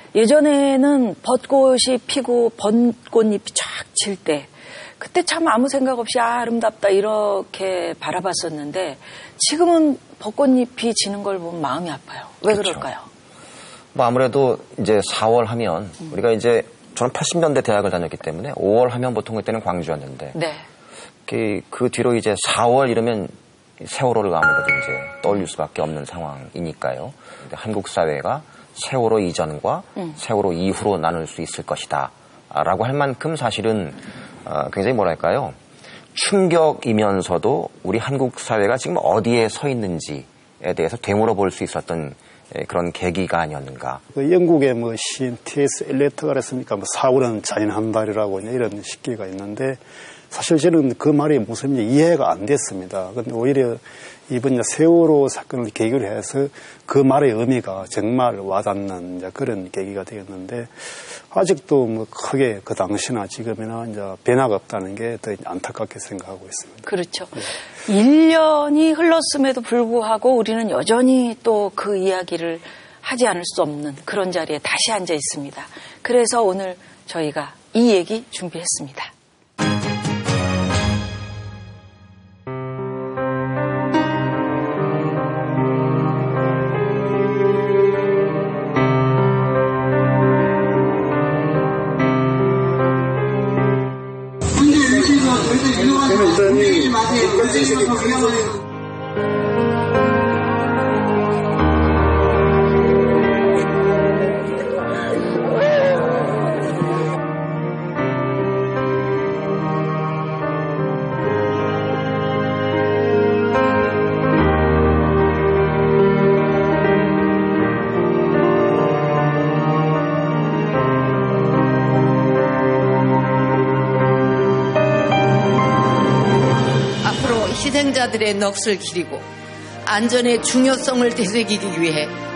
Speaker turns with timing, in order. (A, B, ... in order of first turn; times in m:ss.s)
0:00.1-0:04.5 A
0:05.0-0:13.1 A
0:12.5-0:12.8 B
0:13.9-0:20.4 B
0:20.3-0:20.6 A
0:21.3-0:35.6 B
0:36.1-0:44.0 B
0:44.1-0:49.8 C
0:50.3-1:06.9 C
1:06.8-1:19.1 A
1:36.0-1:37.9 C
2:07.0-2:09.2 D
2:09.9-2:12.2 D